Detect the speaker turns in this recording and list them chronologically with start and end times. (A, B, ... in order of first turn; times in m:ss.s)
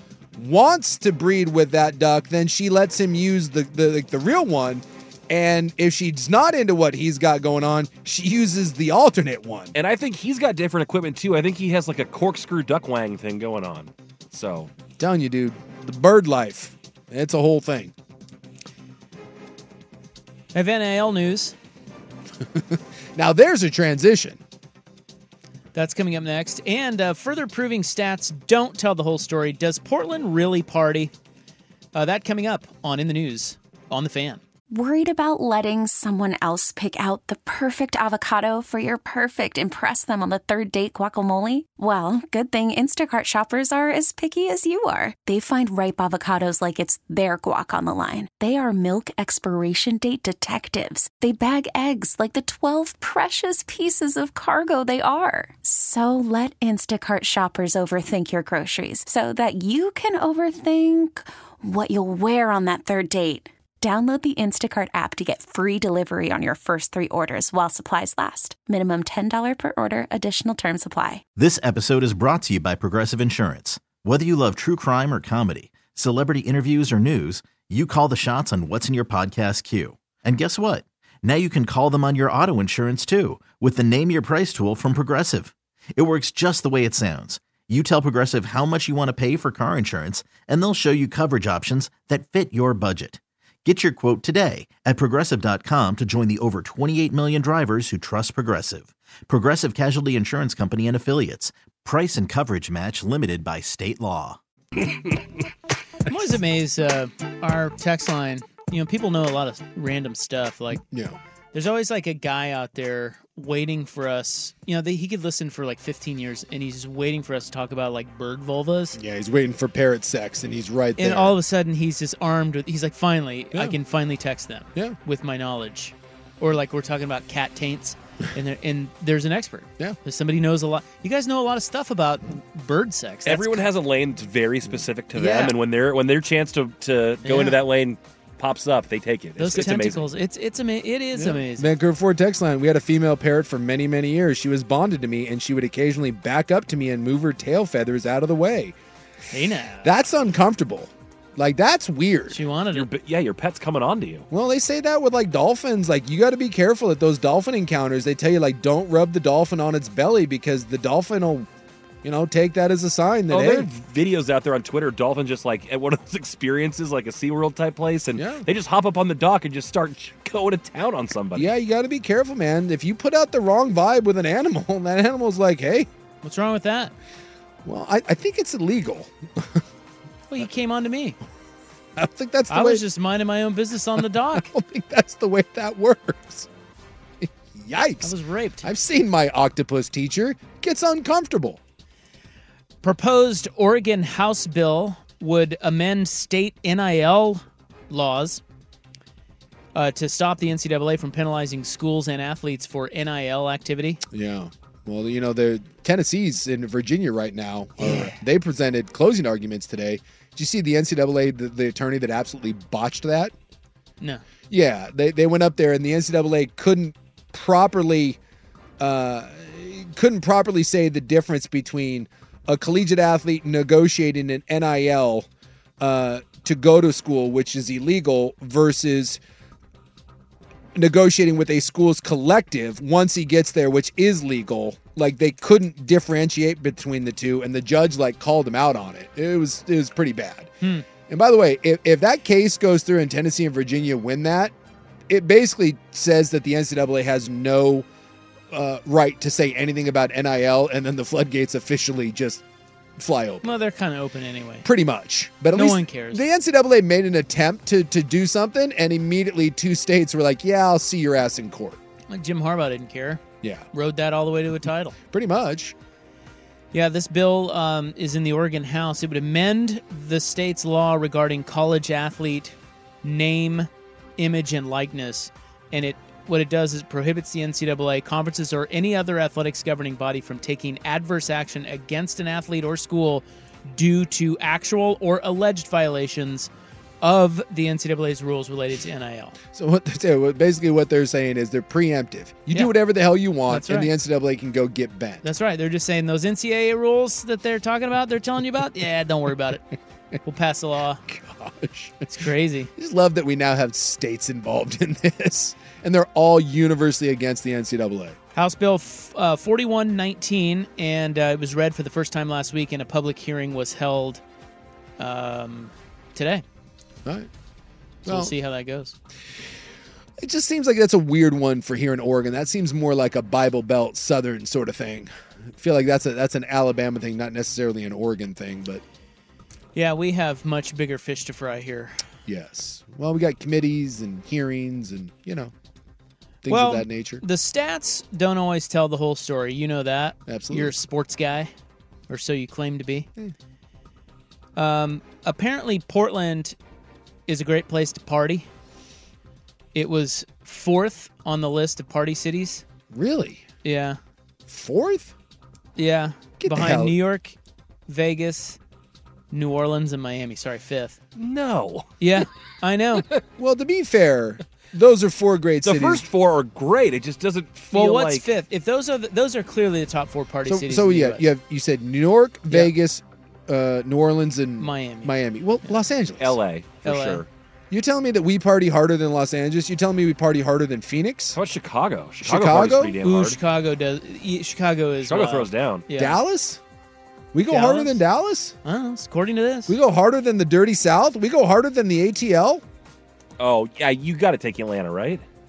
0:00.4-0:09.7 A
0:09.8-0:14.7 B
0:15.0-0:17.9 A
0:20.5-0:21.5 C
0:22.4-0:24.4 A
0:25.7-0:31.1 C
0:31.9-0:34.4 C
0:34.7-1:11.2 D
1:11.4-1:44.4 E
1:46.1-1:50.8 C
1:50.8-1:51.2 A
1:51.5-1:59.0 C
1:59.0-2:01.4 A
2:01.0-2:13.6 C
2:13.2-2:20.1 B
2:15.1-2:15.5 C
2:17.2-2:17.6 C
2:19.4-2:21.7 C
2:21.1-2:28.8 A
2:29.3-2:29.9 C
2:29.8-2:32.4 A
2:32.3-2:32.9 C
2:32.7-2:34.3 B
2:34.3-2:41.5 A
2:42.0-2:43.7 A
2:43.3-2:51.5 B
2:48.1-2:48.5 A
2:51.3-2:55.9 A
2:56.2-2:56.9 C
2:57.6-2:59.6 A
3:00.3-3:01.2 C
3:02.0-3:02.8 A
3:02.5-3:04.5 C
3:04.3-3:06.5 A
3:07.2-3:11.6 A
3:08.0-3:08.7 C
3:12.8-3:18.4 C
3:19.8-3:24.0 C
3:24.1-3:33.3 A
3:27.8-3:28.2 C
3:34.5-3:38.2 A
3:38.8-3:45.3 A
3:45.8-3:49.2 A
3:50.8-4:04.5 A
4:00.6-4:00.8 C
4:05.1-4:07.8 A
4:08.5-4:12.4 A
4:13.0-4:13.5 A
4:13.4-4:14.7 C
4:14.6-4:21.8 A
4:15.5-4:16.2 C
4:22.1-4:23.2 C
4:23.7-4:25.0 C
4:25.1-4:25.8 A
4:26.7-4:46.5 C
4:47.0-4:49.4 C
4:49.5-4:55.2 A
4:53.4-4:53.9 C
4:55.2-4:59.6 C
5:00.2-5:01.0 C
5:01.0-5:02.1 A
5:02.1-5:02.7 C
5:02.8-5:08.2 A
5:08.3-5:14.2 C
5:15.0-5:16.4 C
5:18.0-5:18.9 C
5:18.0-5:18.3 A
5:20.2-5:28.8 A
5:29.8-5:32.0 C
5:32.2-5:35.5 A
5:36.4-5:37.2 A
5:36.5-5:41.5 C
5:40.3-5:40.8 A
5:42.1-5:43.1 C
5:44.6-5:46.6 C
5:47.3-5:48.5 C
5:49.7-5:52.6 C
5:52.9-5:53.4 A
5:53.6-5:54.0 C
5:54.5-5:55.1 A
5:55.8-5:57.4 C
5:56.4-5:57.0 A
5:57.9-5:58.6 C
5:59.3-6:01.0 C
6:01.2-6:01.9 B
6:02.0-6:03.0 C
6:03.4-6:06.1 A
6:05.6-6:08.2 B
6:07.7-6:11.2 C
6:10.4-6:16.4 A
6:14.6-6:15.1 C
6:16.2-6:17.3 B
6:16.8-6:17.2 C
6:17.7-6:21.4 A
6:21.3-6:23.4 B
6:22.2-6:23.0 A
6:23.0-6:26.2 C
6:25.0-6:25.8 B
6:25.9-6:26.6 A
6:27.3-6:28.6 A
6:27.5-6:28.0 C
6:28.6-6:29.8 C
6:29.7-6:32.6 A
6:33.4-6:35.2 B